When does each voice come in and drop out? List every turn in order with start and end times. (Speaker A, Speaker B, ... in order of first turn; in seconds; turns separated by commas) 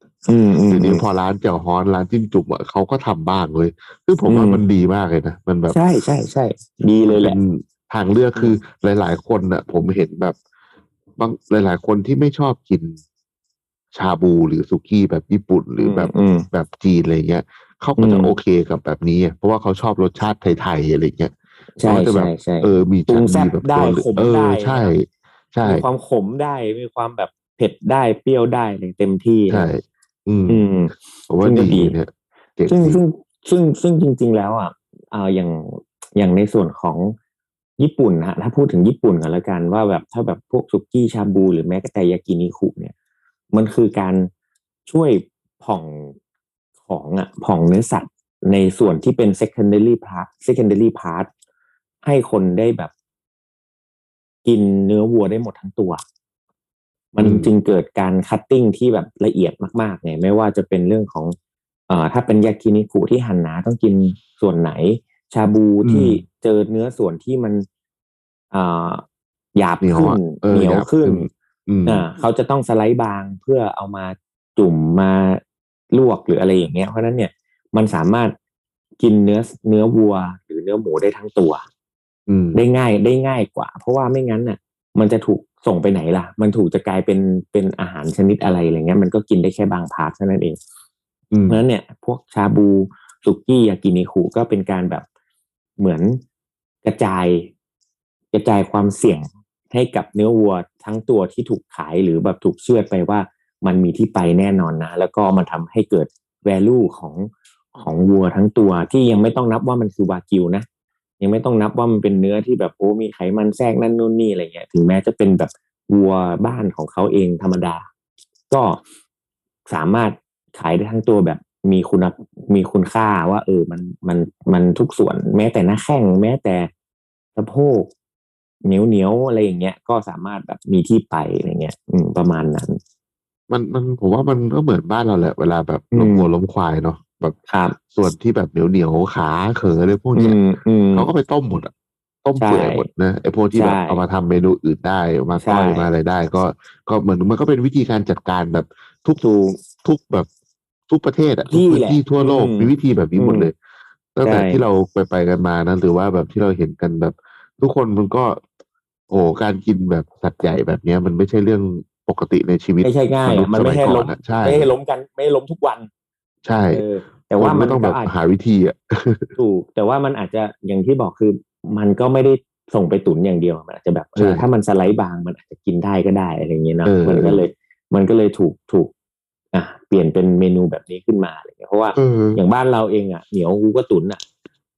Speaker A: 0.3-1.0, Speaker B: 0.7-5.8, Speaker A: 4.3-4.6, Speaker A: 5.7-7.4, Speaker B: 7.1-10.4, Speaker B: 11.2-13.0, Speaker B: 13.9-25.8, Speaker A: 15.8-16.5, Speaker A: 18.0-18.3, Speaker A: 21.8-24.9, Speaker A: 25.6-29.7, Speaker B: 29.5-30.6, Speaker A: 30.5-31.9, Speaker B: 31.3-33.0, Speaker A: 32.7-37.2, Speaker A: 37.8-42.9, Speaker A: 43.5-44.3, Speaker A: 44.9-46.1, Speaker A: 46.9-51.3, Speaker A: 52.0-52.9, Speaker A: 54.5-56.0, Speaker A: 57.1-61.4, Speaker B: 57.2-57.5, Speaker A: 61.9-67.7, Speaker B: 65.8-66.2, Speaker A: 68.5-69.0, Speaker A: 69.6-71.3, Speaker B: 69.8-72.1, Speaker A: 71.9-75.4, Speaker A: 75.9-78.3, Speaker A: 79.0-81.6, Speaker B: 82.3-82.6, Speaker A: 82.5-90.6, Speaker B: 91.3-91.6, Speaker A: 91.5-95.0, Speaker A: 95.8-96.2, Speaker A: 96.8-97.5, Speaker A: 98.3-110.7, Speaker A: 111.2-117.9, Speaker A: 118.5-118.8, Speaker A: 119.7-126.7, Speaker A: 127.4-127.9, Speaker A: 128.7-132.8, Speaker B: 133.5-137.4, Speaker A: 135.9-136.3, Speaker A: 137.5-137.8, Speaker B: 137.9-140.4, Speaker A: 140.2-141.1, Speaker B: 140.9-141.7, Speaker B: 142.2-150.3, Speaker A: 142.4-142.9, Speaker A: 143.6-144.0, Speaker A: 145.4-145.9, Speaker A: 149.2-149.6, Speaker B: 150.9-153.6, Speaker A: 151.5-153.5, Speaker B: 154.2-158.4, Speaker A: 154.2-154.6, Speaker B: 159.1-164.7, Speaker A: 162.8-165.9, Speaker B: 166.4-166.8, Speaker A: 166.7-168.1, Speaker B: 167.4-169.3, Speaker A: 169.4-178.9, Speaker B: 174.2-174.5, Speaker B: 176.8-177.5, Speaker A: 179.5-184.2, Speaker B: 182.0-182.4